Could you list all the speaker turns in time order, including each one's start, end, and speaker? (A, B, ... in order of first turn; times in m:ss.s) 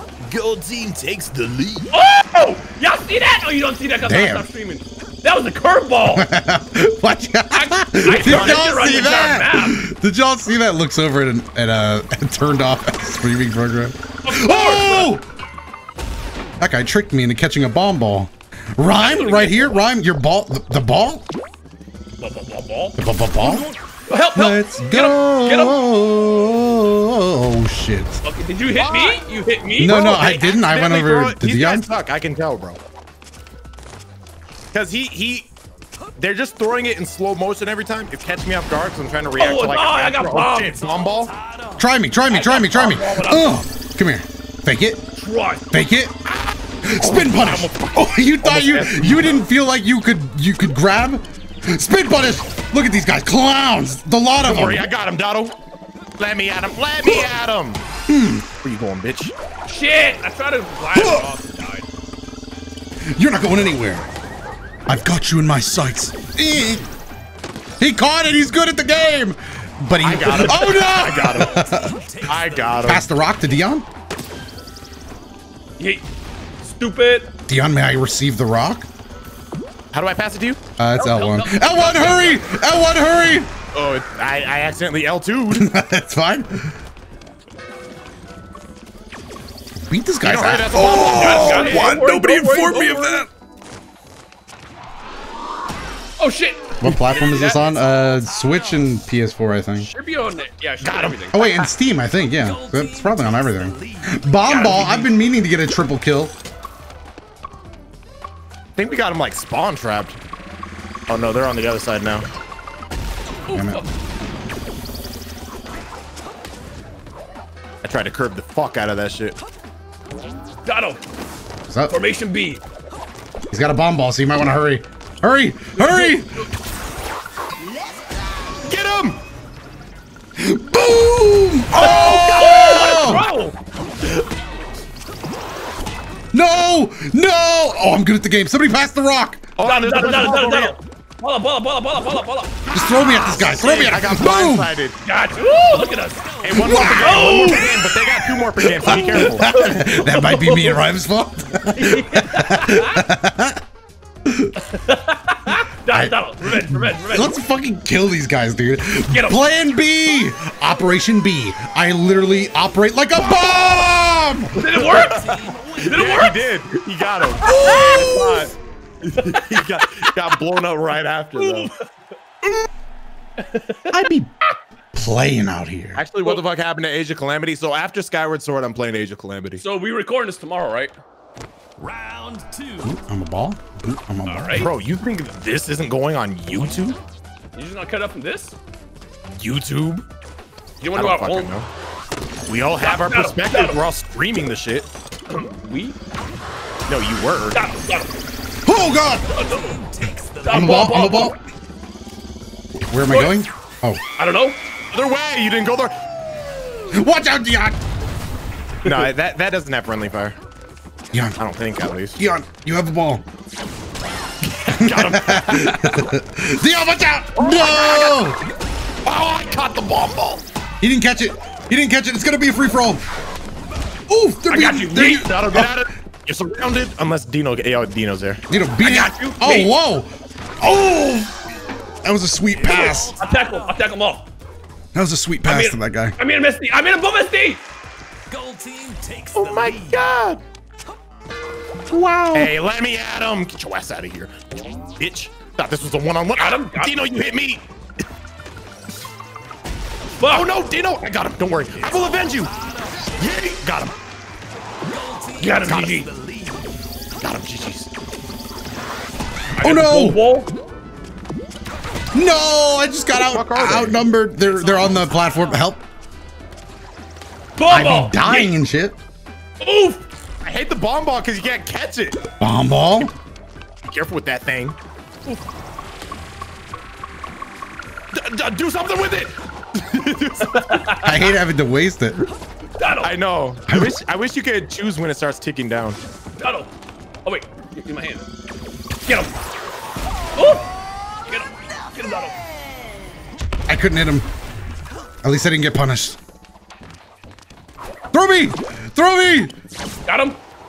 0:00.3-0:01.9 A
0:01.9-0:06.3 B
0:04.0-0:04.4 C
0:06.1-0:15.2 C
0:07.5-0:09.8 B
0:08.1-0:09.0 A
0:14.2-0:15.2 B
0:16.6-0:21.3 C
0:18.9-0:19.8 B
0:22.2-0:23.0 B
0:23.0-0:23.7 C
0:24.1-0:25.8 B
0:24.3-0:28.2 C
0:28.2-0:30.3 B
0:28.7-0:32.8 A
0:29.8-0:31.9 C
0:34.7-0:35.5 A
0:36.2-0:41.3 A
0:39.4-0:40.8 B
0:40.8-0:41.9 D
0:41.8-0:45.0 C
0:42.3-0:43.6 B
0:45.2-0:45.6 B
0:45.7-0:46.2 C
0:46.2-0:49.4 A
0:46.8-0:54.9 C
0:54.4-0:55.6 A
0:56.2-0:57.8 A
0:58.1-0:58.4 C
0:58.6-0:59.3 A
0:59.6-1:01.8 B
1:01.0-1:01.3 C
1:03.1-1:04.0 C
1:04.9-1:06.9 C
1:07.8-1:11.9 C
1:10.0-1:11.6 A
1:10.5-1:13.0 D
1:12.2-1:13.0 A
1:12.8-1:13.8 C
1:16.6-1:17.3 B
1:17.5-1:18.8 C
1:19.9-1:20.6 A
1:20.8-1:23.5 C
1:21.0-1:22.6 B
1:23.7-1:25.7 A
1:25.5-1:26.8 C
1:29.7-1:33.2 C
1:30.2-1:31.9 A
1:30.8-1:33.3 D
1:31.1-1:33.1 B
1:36.2-1:37.6 B
1:36.8-1:39.9 C
1:37.3-1:39.0 D
1:39.8-1:41.4 B
1:40.8-1:41.7 A
1:41.3-1:46.3 C
1:42.3-1:44.3 D
1:44.4-1:45.1 B
1:48.8-1:50.2 A
1:51.1-1:52.3 A
1:53.5-1:53.9 B
1:53.5-1:53.8 C
1:57.8-1:59.4 A
2:00.6-2:01.0 B
2:01.7-2:02.0 C
2:01.9-2:02.6 B
2:03.5-2:06.3 C
2:08.6-2:09.2 A
2:10.4-2:13.2 C
2:11.7-2:13.1 A
2:11.8-2:13.6 B
2:16.3-2:19.5 C
2:19.6-2:20.8 A
2:19.6-2:22.6 B
2:22.7-2:24.7 C
2:23.0-2:25.0 A
2:25.0-2:27.9 B
2:25.4-2:27.6 D
2:26.4-2:29.5 A
2:26.6-2:27.2 C
2:28.8-2:33.6 C
2:28.9-2:30.8 B
2:31.8-2:33.0 B
2:34.2-2:34.5 C
2:34.6-2:37.4 B
2:35.9-2:36.2 C
2:36.7-2:44.5 C
2:39.1-2:39.4 B
2:44.6-2:45.3 B
2:44.6-2:48.5 A
2:44.8-2:46.4 D
2:45.8-2:46.4 B
2:47.4-2:48.5 C
2:49.0-2:51.7 A
2:51.4-2:51.8 B
2:53.4-2:53.8 B
2:53.9-2:54.3 C
2:54.9-2:56.0 C
2:55.9-2:59.6 A
2:59.6-3:00.9 B
3:01.8-3:03.0 D
3:02.8-3:04.7 C
3:04.2-3:04.7 B
3:04.6-3:07.0 A
3:07.6-3:08.5 B
3:09.3-3:10.0 A
3:10.8-3:11.5 B
3:10.9-3:11.7 A
3:12.5-3:14.9 A
3:12.8-3:13.8 B
3:15.3-3:16.0 B
3:16.9-3:17.6 A
3:17.5-3:18.1 B
3:18.6-3:19.3 C
3:19.3-3:19.8 B
3:19.4-3:21.2 D
3:20.4-3:21.4 B
3:20.5-3:21.4 C
3:22.9-3:24.0 C
3:23.1-3:23.4 B
3:24.2-3:24.6 B
3:24.9-3:26.0 A
3:26.9-3:27.8 C
3:28.8-3:30.4 A
3:31.4-3:32.2 A
3:32.2-3:33.2 C
3:34.4-3:36.1 A
3:34.8-3:38.4 C
3:37.4-3:38.2 A
3:39.0-3:40.4 A
3:40.8-3:43.0 C
3:44.1-3:45.7 C
3:44.5-3:45.4 B
3:45.0-3:48.4 A
3:48.5-3:51.3 C
3:48.8-3:49.7 B
3:52.0-3:53.2 C
3:52.5-3:53.8 D
3:53.2-3:54.2 B
3:54.9-3:56.2 C
3:55.4-3:57.6 B
3:58.3-4:00.1 D
3:59.3-4:00.4 A
4:01.9-4:02.5 C
4:02.3-4:04.3 A
4:05.0-4:07.6 A
4:06.4-4:07.0 B
4:10.2-4:10.5 B
4:10.2-4:12.5 A
4:11.8-4:13.1 D
4:13.2-4:13.9 A
4:14.8-4:16.7 D
4:15.4-4:16.1 B
4:17.2-4:17.9 A
4:19.6-4:20.5 B
4:19.6-4:20.2 C
4:22.1-4:25.8 C
4:23.1-4:24.0 A
4:24.5-4:25.5 D
4:27.6-4:28.5 B
4:27.7-4:29.0 C
4:29.6-4:30.0 B
4:30.4-4:32.2 A
4:32.4-4:33.1 C
4:33.8-4:34.8 A
4:38.1-4:41.0 A
4:40.5-4:41.2 B
4:41.0-4:42.2 C
4:42.8-4:43.1 B
4:43.0-4:46.0 A
4:43.7-4:43.9 C
4:46.4-4:46.7 B
4:47.2-4:48.2 B
4:49.0-4:49.3 B
4:50.3-4:50.7 B
4:51.3-4:52.4 B
4:53.7-4:54.3 C
4:55.2-4:56.2 C
4:58.1-4:59.5 C
5:00.0-5:00.4 B